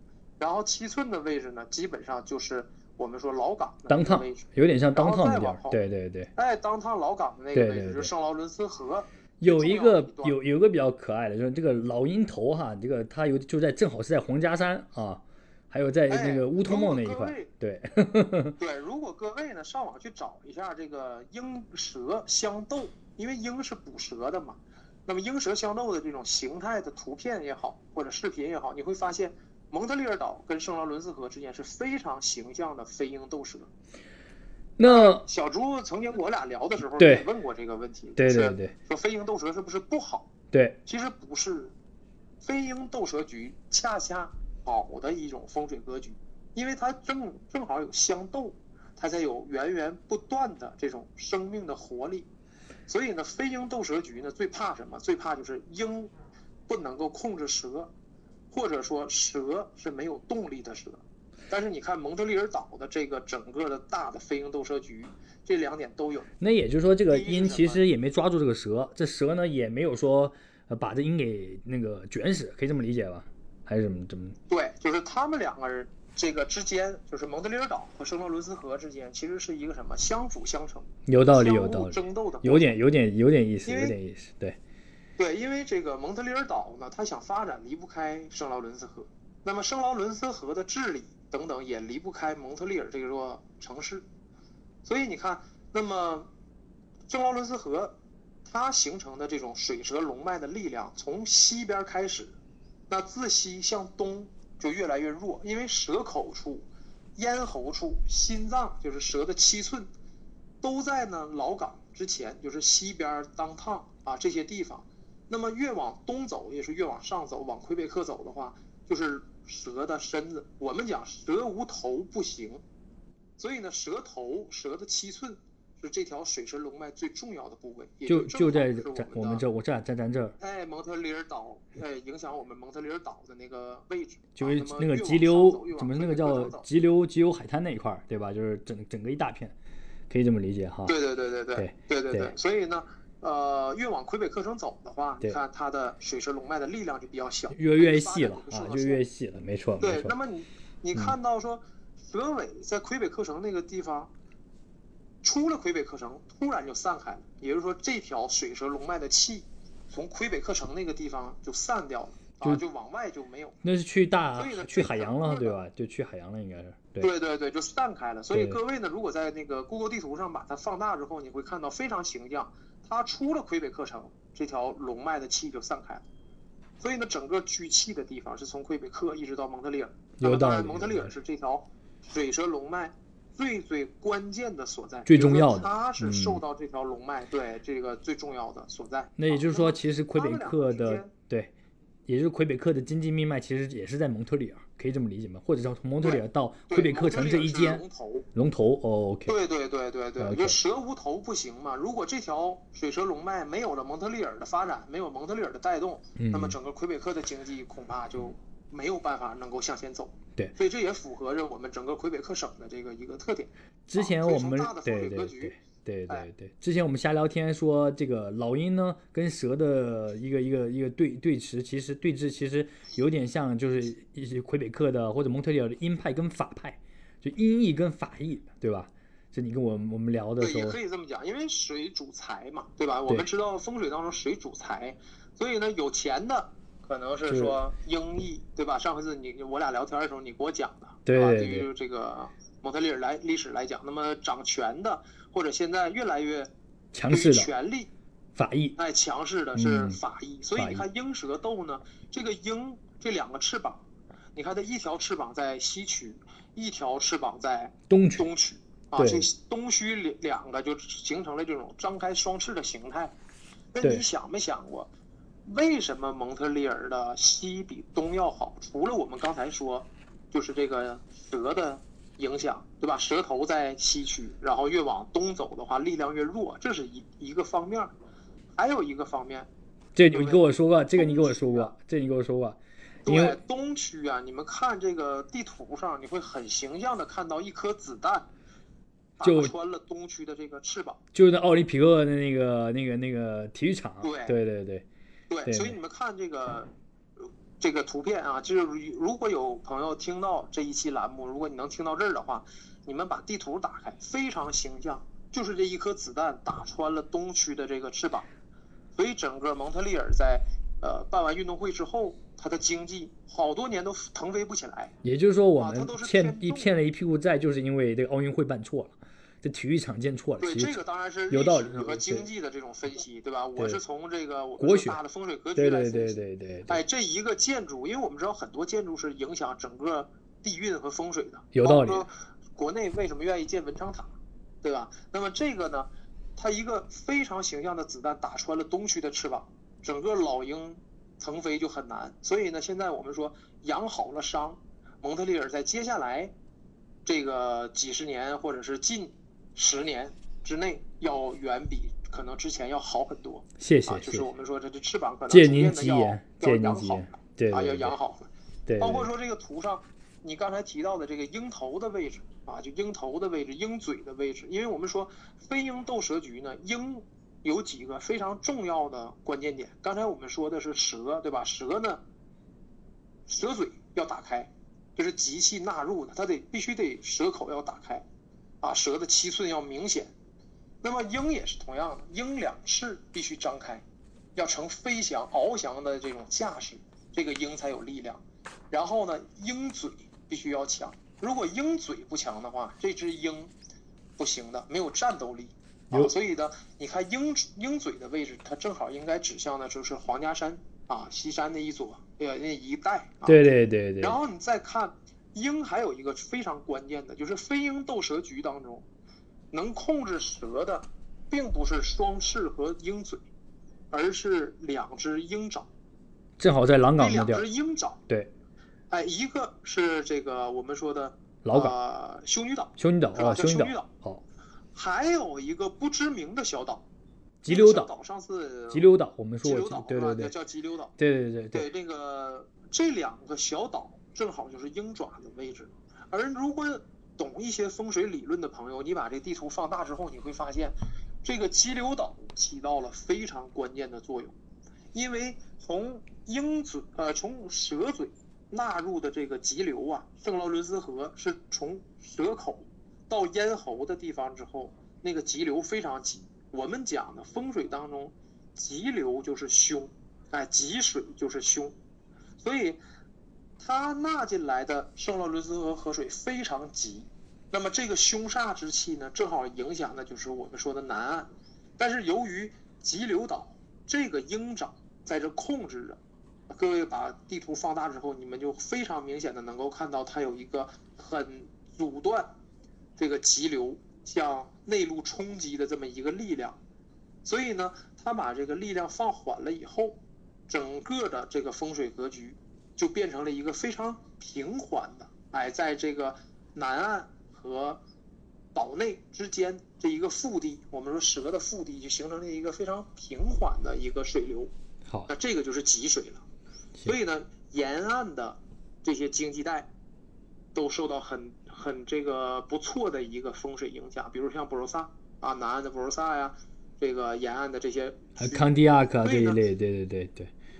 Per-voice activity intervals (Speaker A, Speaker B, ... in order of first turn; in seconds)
Speaker A: 0.4-5.8, 6.4-10.4, 16.1-17.5, 18.6-33.7, 34.8-40.3, 40.9-41.7, 42.4-52.3, 52.9-56.1, 56.7-57.9, 58.5-66.3, 67.1-67.8, 74.5-82.7, 83.7-84.0, 85.2-94.0, 94.8-96.3, 97.1-102.3, 102.9-109.9, 110.6-122.6, 123.4-129.4, 130.4-136.7, 140.9-149.0, 149.8-154.1, 155.2-163.6, 164.3-165.6, 167.0-176.0, 176.8-191.1, 196.0-198.3, 199.3-216.3, 230.4-246.5, 247.1-247.9, 248.8-253.8, 254.3-263.1, 263.7-264.9, 265.4-277.9, 278.6-279.5, 280.1-280.4, 280.9-281.7, 283.1-288.3, 289.2-291.0, 294.0-294.4, 295.3-308.3, 309.0-314.9, 315.6-316.8, 320.4-346.3, 347.1-372.0, 373.3-378.1, 378.6-380.1, 380.8-383.8, 384.4-393.5, 394.2-403.5, 404.0-408.9, 409.5-413.2, 413.9-415.7, 417.0-418.0, 418.9-423.9, 424.7-426.9, 427.5-428.9, 429.4-430.9, 431.5-444.4, 444.9-461.8, 462.4-462.8, 463.6-476.0, 476.5-482.3, 483.0-486.6, 487.2-490.0, 490.5-497.8, 498.5-504.5, 505.1-506.2, 506.9-509.7, 510.6-519.4
Speaker B: 3.9-6.3, 7.5-8.1, 9.4-18.6, 34.8-35.2, 37.0-37.2, 38.2-38.7, 40.5-40.8, 66.4-74.4, 81.1-84.6, 128.1-130.4, 134.4-139.6, 140.1-140.9, 141.6-142.3, 147.5-150.1, 163.6-167.1, 180.2-181.2, 185.1-186.4, 189.2-191.5, 192.1-197.8, 198.3-199.3, 200.2-200.6, 206.2-206.6, 213.9-230.8, 237.3-237.6, 241.1-241.7, 246.9-247.5, 248.3-248.8, 249.6-250.0, 250.6-250.8, 257.9-258.3, 259.0-259.3, 279.9-283.4, 289.2-289.5, 291.1-294.9, 295.5-295.8, 315.0-320.8, 321.3-322.3, 324.6-325.0, 325.6-326.8, 331.5-332.1, 353.6-354.3, 355.3-357.9, 358.7-359.1, 403.3-404.2, 416.4-417.4, 421.4-421.8, 422.8-424.2, 427.4-427.9, 428.7-430.3, 431.0-431.7, 518.2-520.3